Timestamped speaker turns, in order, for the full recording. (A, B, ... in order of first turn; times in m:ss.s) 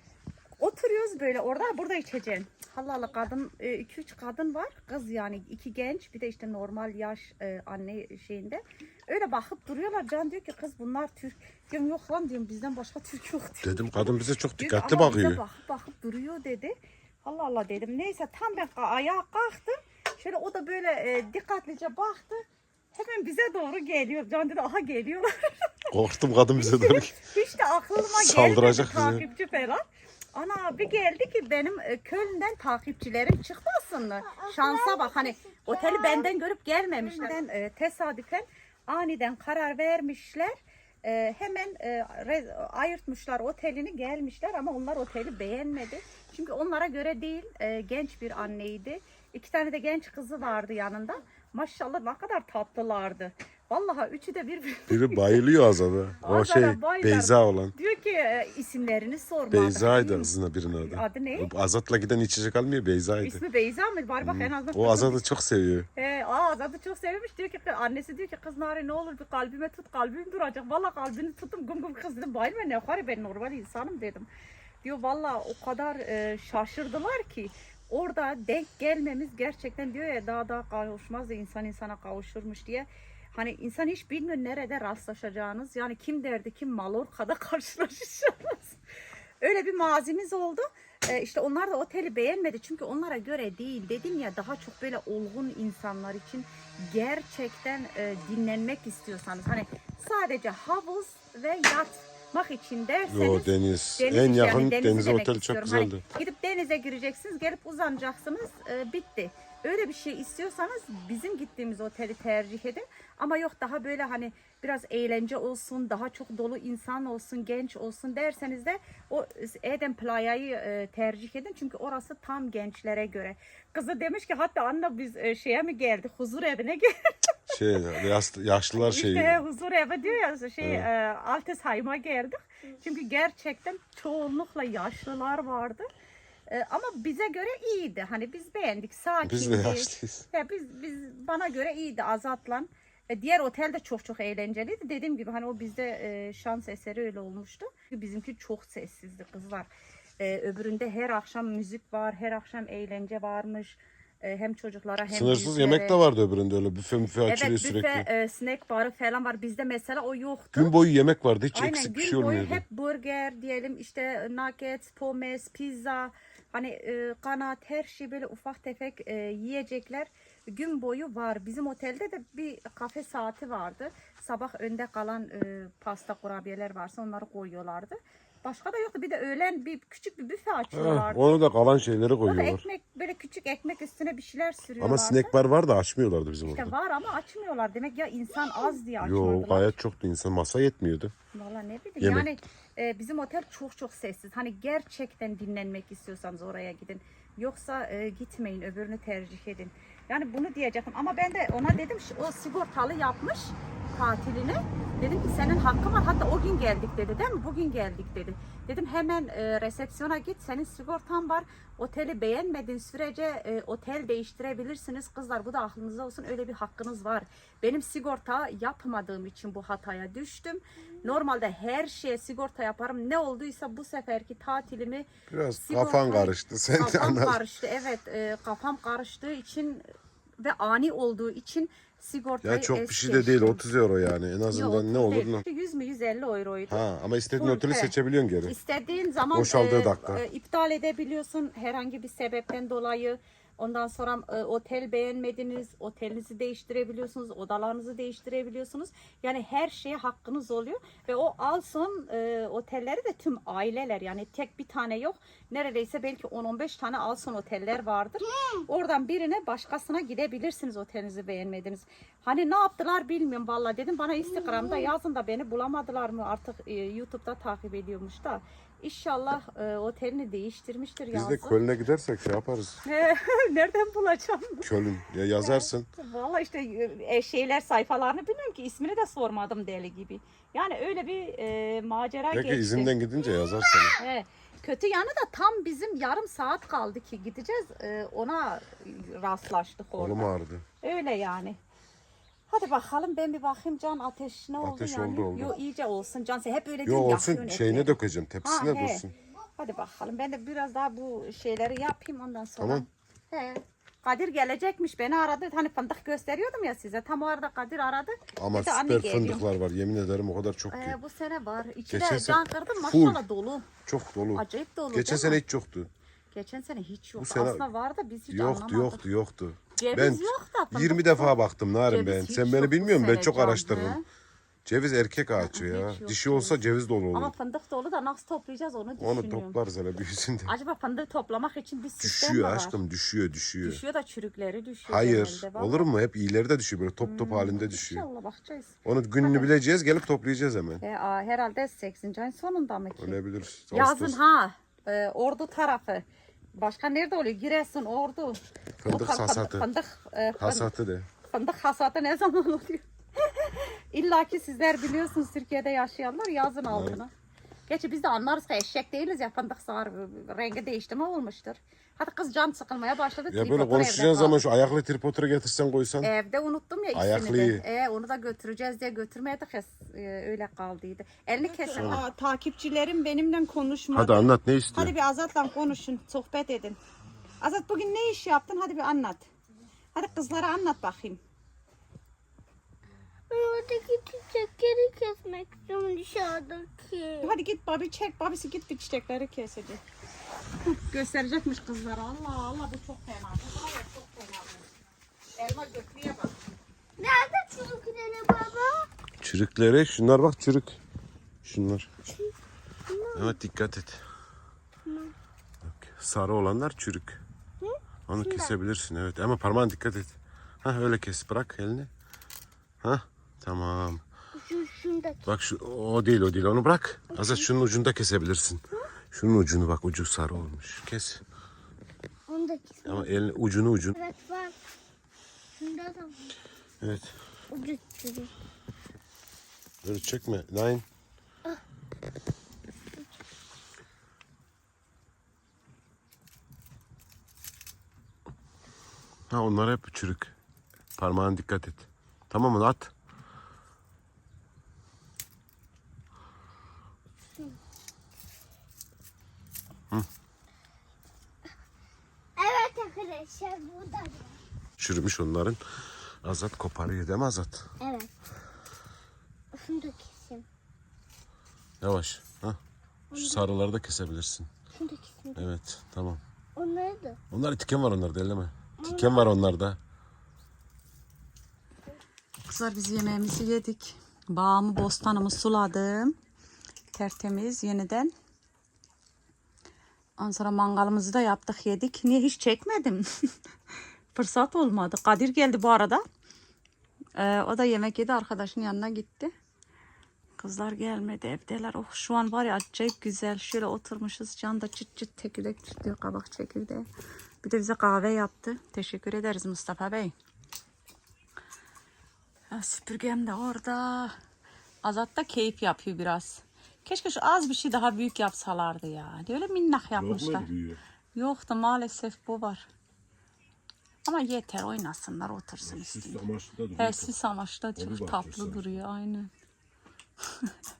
0:00.6-0:25.7 A
0:13.6-0:15.4 B
0:25.9-0:27.1 B
0:26.6-0:55.4 A
0:28.2-0:29.2 B
0:34.2-0:36.3 C
0:37.0-0:37.3 C
0:54.9-0:57.7 B
0:56.2-1:01.5 A
0:59.5-1:03.4 B
1:03.2-1:05.2 A
1:04.2-1:05.9 B
1:06.0-1:14.3 A
1:14.8-1:28.8 A
1:29.4-2:07.5 A
1:43.1-1:46.0 B
2:07.5-2:09.4 B
2:08.7-2:15.9 A
2:10.6-2:10.9 B
2:16.5-2:36.0 A
2:19.2-2:20.2 B
2:35.1-2:38.1 B
2:37.3-2:40.7 A
2:40.5-2:42.6 B
2:41.5-3:01.3 A
3:00.7-3:02.6 B
3:02.2-3:05.3 A
3:04.8-3:06.7 B
3:06.4-3:09.7 A
3:09.0-3:11.1 B
3:11.3-3:49.8 A
3:12.0-3:12.3 B
3:45.3-3:47.4 B
3:50.4-3:53.6 A
3:52.4-3:55.4 B
3:54.5-3:56.8 A
3:56.7-3:58.6 B
3:57.4-3:57.9 A
3:58.4-4:31.6 A
3:59.3-4:00.2 B
4:18.2-4:18.6 C
4:24.3-4:24.9 C
4:31.1-4:32.8 B
4:32.8-4:34.7 A
4:34.6-4:35.9 B
4:35.4-4:43.0 A
4:42.3-4:44.0 B
4:43.6-4:43.9 C
4:44.0-4:50.3 A
4:50.0-4:50.6 B
4:50.8-4:51.6 A
4:52.5-4:59.0 A
4:54.6-4:55.5 B
4:56.8-4:59.1 B
4:59.6-5:09.4 A
5:02.6-5:02.8 B
5:08.4-5:11.0 B
5:10.7-5:13.7 A
5:11.9-5:13.2 B
5:13.8-5:15.9 B
5:14.3-5:15.4 A
5:16.3-5:19.0 A
5:17.2-5:17.7 B
5:18.3-5:24.0 B
5:19.8-5:21.4 A
5:21.9-5:24.0 A
5:24.6-5:27.3 B
5:25.4-5:26.6 A
5:27.1-5:29.6 A
5:29.0-5:30.5 B
5:30.5-5:32.8 A
5:32.0-5:33.8 B
5:33.6-5:35.9 A
5:34.9-5:38.0 B
5:37.0-5:39.5 A
5:38.8-5:40.8 B
5:40.8-5:43.2 A
5:43.0-5:44.2 B
5:43.7-5:46.0 A
5:46.6-5:50.7 A
5:48.8-5:49.7 B
5:50.4-5:51.1 B
5:51.2-5:57.1 A
5:56.7-5:57.0 B
5:57.7-6:04.4 A
6:03.3-6:06.1 B
6:06.0-6:16.8 A
6:06.9-6:07.6 B
6:11.5-6:11.9 C
6:11.8-6:12.0 B
6:13.9-6:14.9 B
6:17.4-6:19.3 A
6:19.9-6:21.2 A
6:23.3-6:27.3 C
6:27.2-6:29.8 A
6:30.6-6:34.7 A
6:35.4-6:36.3 A
6:37.0-6:38.9 C
6:39.2-6:40.8 B
6:41.4-6:41.9 B
6:42.1-6:42.3 C
6:42.9-6:43.4 C
6:43.1-6:44.0 B
6:44.8-6:45.1 C
6:45.6-6:47.2 B
6:47.6-6:48.5 C
6:48.1-6:51.9 B
6:52.8-6:54.0 B
6:54.4-6:55.2 C
6:55.3-7:01.2 B
6:57.1-6:57.4 C
7:02.3-7:03.1 C
7:02.8-7:04.0 B
7:04.0-7:04.5 C
7:05.6-7:06.2 C
7:06.8-7:07.1 B
7:07.5-7:08.3 C
7:09.8-7:10.8 B
7:19.3-7:20.3 B
7:21.0-7:22.9 B
7:32.4-7:34.4 C
7:34.8-7:35.6 B
7:36.2-7:37.7 B
7:37.8-7:38.1 C
7:39.5-7:40.4 C
7:41.8-7:42.6 B
7:43.1-7:43.4 C
7:43.1-7:44.5 B
7:44.7-7:45.4 C
7:45.3-7:46.2 B
7:46.6-7:47.2 C
7:47.3-7:49.8 B
7:48.8-7:49.3 C
7:52.5-7:56.2 A
7:56.9-7:58.1 A
8:00.2-8:03.0 A
8:04.1-8:06.0 A
8:07.2-8:09.3 A
8:10.4-8:16.8 A
8:17.4-8:20.1 A
8:22.5-8:24.1 A
8:24.8-8:30.5 A
8:29.9-8:30.8 B
8:31.1-8:32.6 A
8:34.0-8:36.2 A
8:35.6-8:37.1 B
8:36.8-8:39.3 A
8:37.8-8:38.7 B